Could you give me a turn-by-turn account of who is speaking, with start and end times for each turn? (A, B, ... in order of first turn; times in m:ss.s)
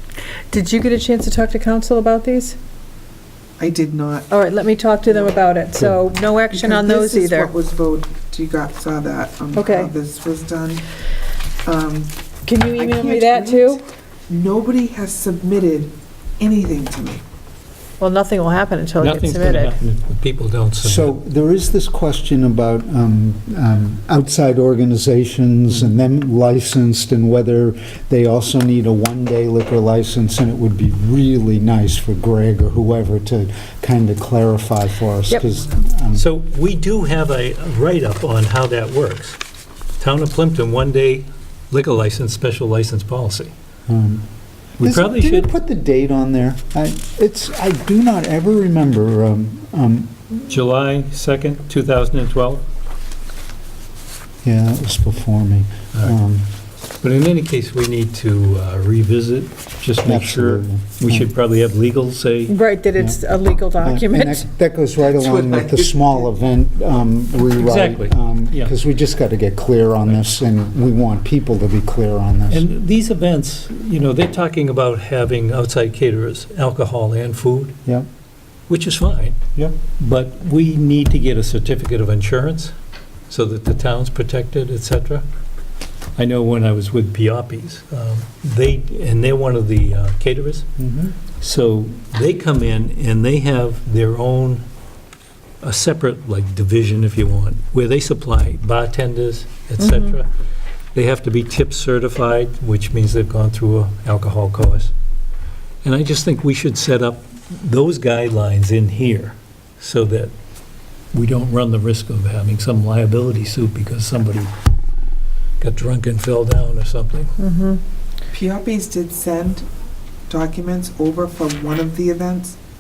0:00.5-0:02.6 A
0:03.6-0:04.3 B
0:04.3-0:07.5 A
0:05.1-0:05.3 B
0:06.5-0:10.9 B
0:09.6-0:09.9 A
0:11.6-0:12.1 B
0:12.4-0:13.8 A
0:12.7-0:17.2 B
0:18.0-0:19.8 A
0:19.0-0:21.1 C
0:20.8-0:36.2 D
0:36.1-0:39.4 C
0:40.0-0:43.5 C
0:43.9-0:44.2 D
0:44.8-0:45.5 C
0:44.8-0:50.2 D
0:50.5-0:52.6 C
0:54.4-0:56.5 D
0:57.0-1:02.6 C
1:00.0-1:01.3 D
1:02.5-1:04.4 A
1:03.0-1:03.2 D
1:03.8-1:12.6 D
1:05.0-1:06.3 B
1:07.5-1:08.7 C
1:12.5-1:17.8 C
1:18.7-1:19.4 C
1:19.5-1:19.8 D
1:20.0-1:22.7 C
1:23.3-1:25.2 C
1:26.2-1:30.7 C
1:30.8-1:31.1 D
1:31.4-1:34.6 C
1:35.6-1:40.3 C
1:39.8-1:40.1 A
1:40.9-1:44.9 C
1:45.8-1:50.3 C
1:51.1-1:54.5 C
1:55.6-1:57.3 C
1:57.4-1:57.8 A
1:58.3-1:59.7 B
2:00.3-2:02.6 B